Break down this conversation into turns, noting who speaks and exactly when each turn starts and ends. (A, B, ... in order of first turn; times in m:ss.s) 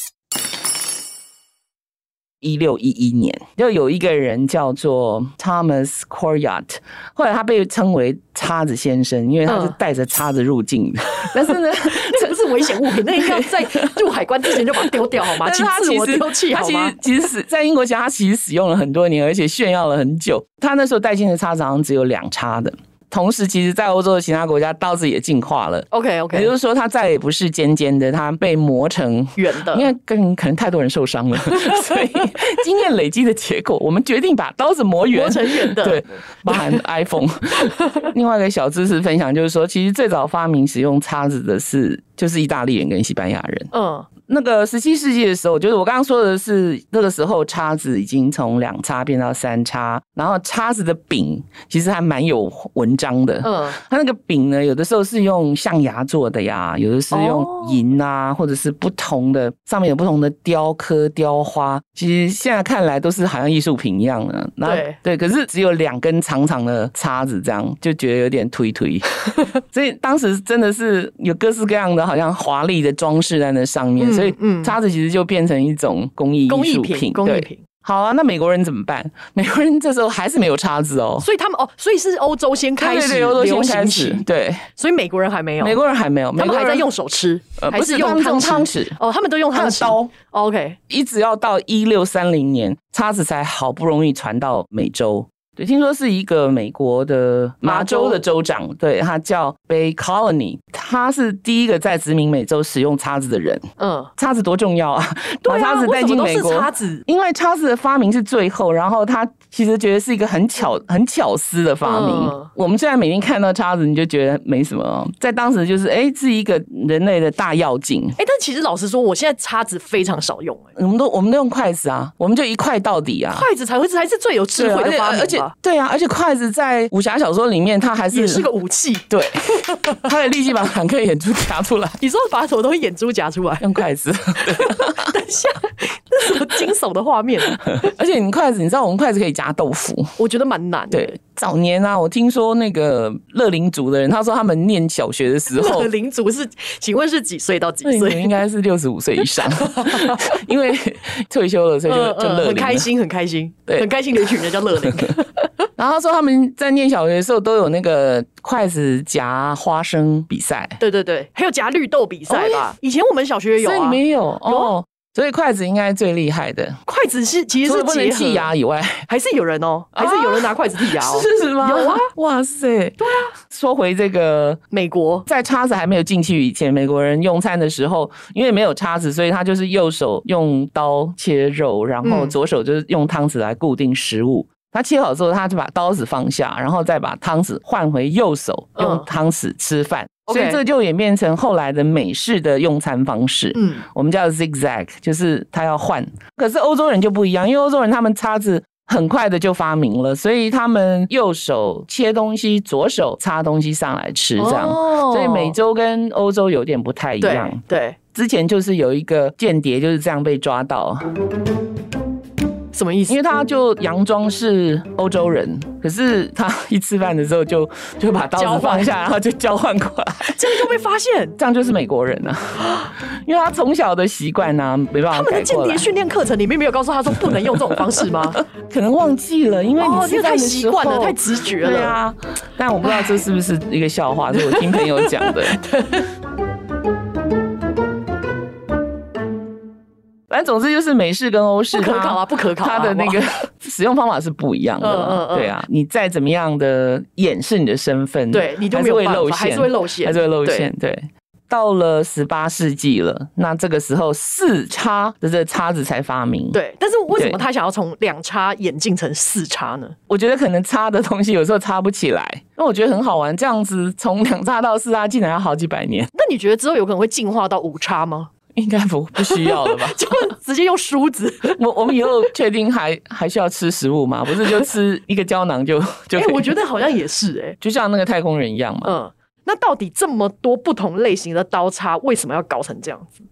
0:02.4-0:43.7 A
0:09.5-0:09.8 B
0:11.9-0:17.0 B
0:25.9-0:26.5 B
0:29.4-0:29.9 B
0:35.1-0:36.8 B
0:43.7-0:44.1 B
0:44.3-1:09.1 A
0:53.4-0:53.8 B
0:57.1-0:57.8 B
1:04.6-1:05.0 B
1:09.7-1:21.3 A
1:14.0-1:14.8 B
1:16.5-1:17.6 B
1:21.2-1:24.2 B
1:22.8-1:24.7 A
1:24.8-1:25.8 B
1:25.6-1:26.9 A
1:26.4-1:30.8 B
1:27.6-1:29.0 A
1:29.5-1:30.1 A
1:30.9-1:43.6 A
1:37.6-1:38.2 B
1:43.8-1:44.1 B
1:44.2-1:58.2 A
1:45.4-1:47.0 B
1:51.8-1:52.5 B
1:58.2-2:00.7 B
2:00.8-2:03.5 A
2:03.4-2:05.5 B
2:04.6-2:08.5 A
2:08.1-2:09.1 B
2:09.1-2:12.0 A
2:12.0-2:13.8 B
2:13.6-2:15.2 A
2:14.5-2:17.8 B
2:17.5-2:20.1 A
2:20.2-2:21.2 B
2:20.9-2:25.9 A
2:25.5-2:28.4 B
2:27.8-2:32.9 A
2:29.6-2:30.3 B
2:31.9-2:35.4 B
2:35.8-2:40.8 A
2:40.8-2:44.7 B
2:42.3-2:42.7 A
2:43.6-2:46.8 A
2:46.9-2:48.5 B
2:47.6-2:49.1 A
2:49.1-2:52.1 B
2:50.0-2:54.6 A
2:53.0-2:53.3 B
2:54.7-2:55.3 B
2:55.3-3:27.6 A
3:02.0-3:02.4 B
3:08.8-3:09.1 B
3:10.3-3:10.6 B
3:13.6-3:13.8 B
3:24.4-3:25.6 B
3:27.2-3:28.0 B
3:28.1-3:31.1 A
3:32.7-3:33.2 B
3:33.1-3:40.6 A
3:38.4-3:38.9 B
3:40.3-3:41.4 B
3:41.4-3:45.9 A
3:45.1-3:48.4 B
3:47.2-3:55.6 A
3:49.8-3:52.0 B
3:52.8-3:53.2 B
3:54.3-3:56.1 B
4:00.3-4:16.6 A
4:01.7-4:03.2 B
4:04.8-4:05.6 B
4:08.3-4:10.7 B
4:16.5-4:20.0 B
4:17.1-4:17.4 A
4:20.1-4:26.1 A
4:26.2-4:28.3 B
4:28.6-4:30.2 A
4:29.2-4:31.6 B
4:31.6-4:36.5 A
4:36.2-4:37.6 B
4:37.6-4:39.0 A
4:38.8-4:43.2 B